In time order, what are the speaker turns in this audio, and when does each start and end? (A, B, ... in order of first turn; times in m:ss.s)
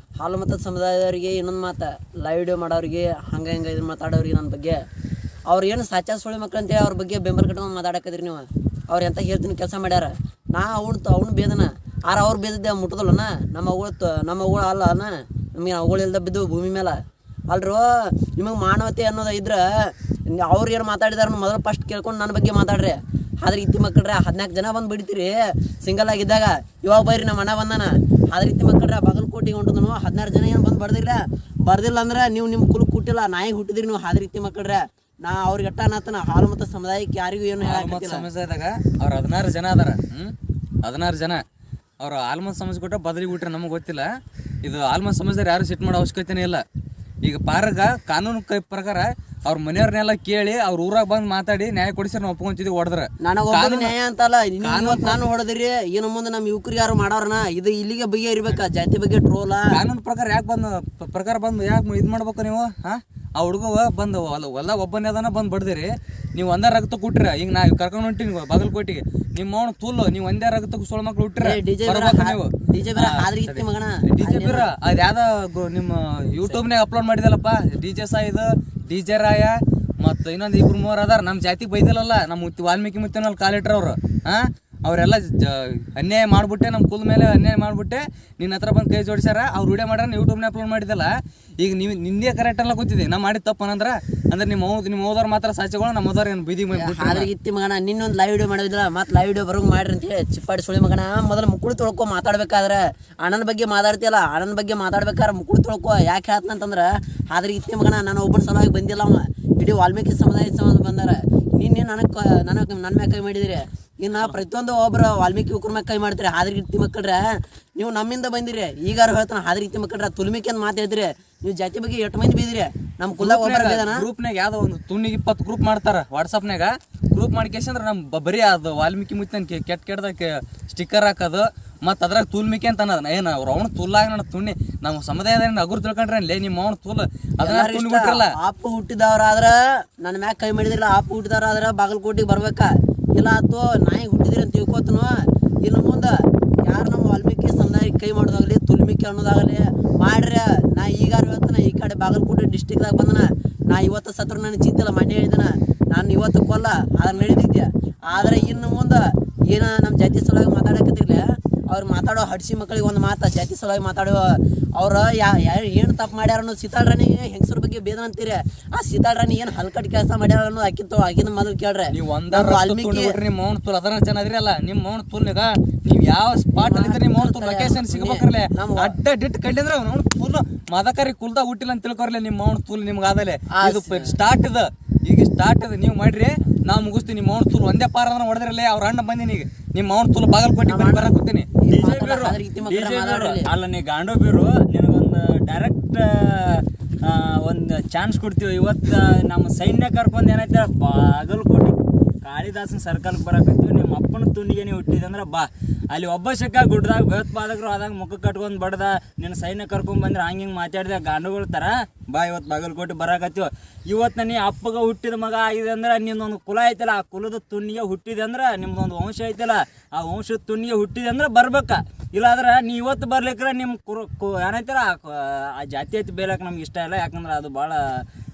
0:00.2-0:04.8 A
0:05.5-0:38.3 A
0:37.6-0:41.4 B
0:42.0-0:44.1 B
0:44.6-0:46.6 B
0:47.2-0:53.9 B
0:53.2-0:59.8 A
0:54.6-0:55.2 B
0:59.7-1:37.3 B
1:11.4-1:14.7 A
1:36.7-1:57.2 A
1:57.8-2:04.1 A
2:03.2-2:18.3 B
2:17.4-2:53.2 A
2:38.2-2:38.5 C
2:51.9-3:11.5 B
2:56.6-2:59.0 A
3:03.5-3:04.2 A
3:10.7-3:13.5 A
3:11.7-3:48.0 C